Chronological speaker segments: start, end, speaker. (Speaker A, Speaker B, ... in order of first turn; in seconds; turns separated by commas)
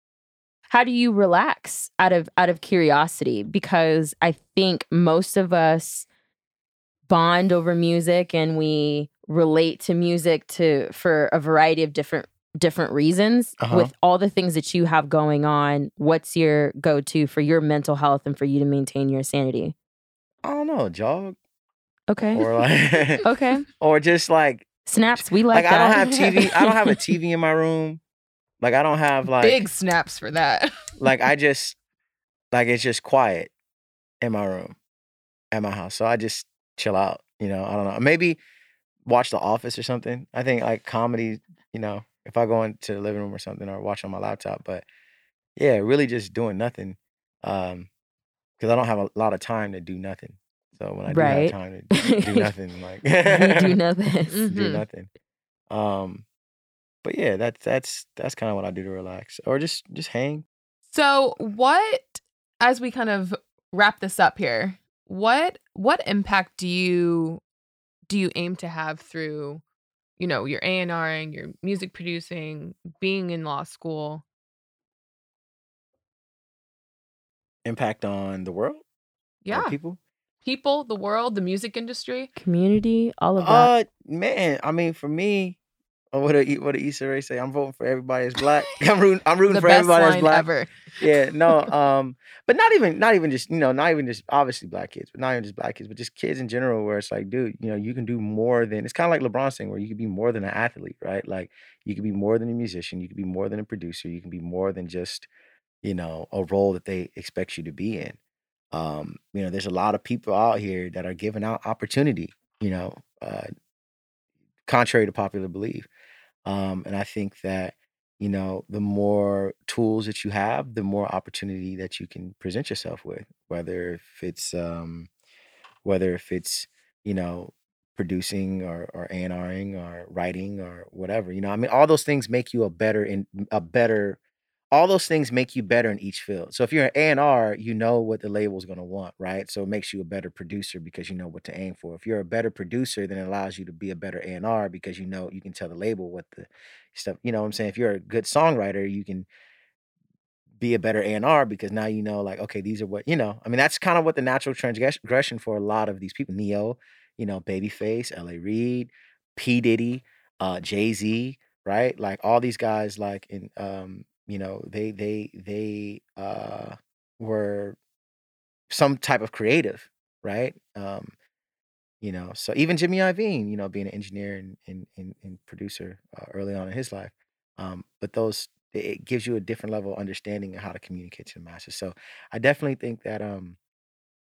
Speaker A: 0.7-6.1, Speaker A: 7.1-19.7, Speaker B: 13.6-13.9, Speaker B: 20.4-21.4, Speaker A: 22.1-22.5, Speaker B: 22.3-23.2, Speaker A: 23.2-23.6, Speaker B: 23.8-24.8, Speaker A: 24.9-26.9, Speaker B: 25.5-28.0, Speaker B: 28.6-29.6, Speaker C: 29.4-30.9, Speaker B: 31.0-31.8, Speaker B: 32.5-33.5, Speaker B: 34.2-34.8, Speaker B: 35.5-38.4, Speaker B: 39.0-44.8, Speaker B: 45.5-47.9, Speaker B: 48.6-53.8, Speaker A: 51.1-52.5, Speaker A: 53.2-54.4, Speaker C: 54.3-54.8, Speaker B: 54.5-55.1, Speaker B: 55.7-56.2, Speaker B: 57.0-60.4, Speaker C: 60.9-67.4, Speaker C: 68.1-69.6, Speaker C: 70.2-74.2, Speaker B: 77.6-78.8, Speaker C: 79.4-79.8, Speaker B: 79.5-80.0, Speaker C: 80.4-82.3, Speaker A: 82.3-83.7, Speaker B: 83.4-85.6, Speaker B: 86.1-90.5, Speaker C: 89.5-91.7, Speaker B: 91.0-105.3, Speaker B: 105.8-108.2, Speaker B: 108.7-113.5, Speaker B: 114.7-115.9, Speaker B: 116.5-125.1, Speaker B: 125.8-134.2, Speaker B: 134.7-149.3, Speaker B: 150.6-167.8, Speaker B: 168.7-171.1, Speaker B: 172.0-183.6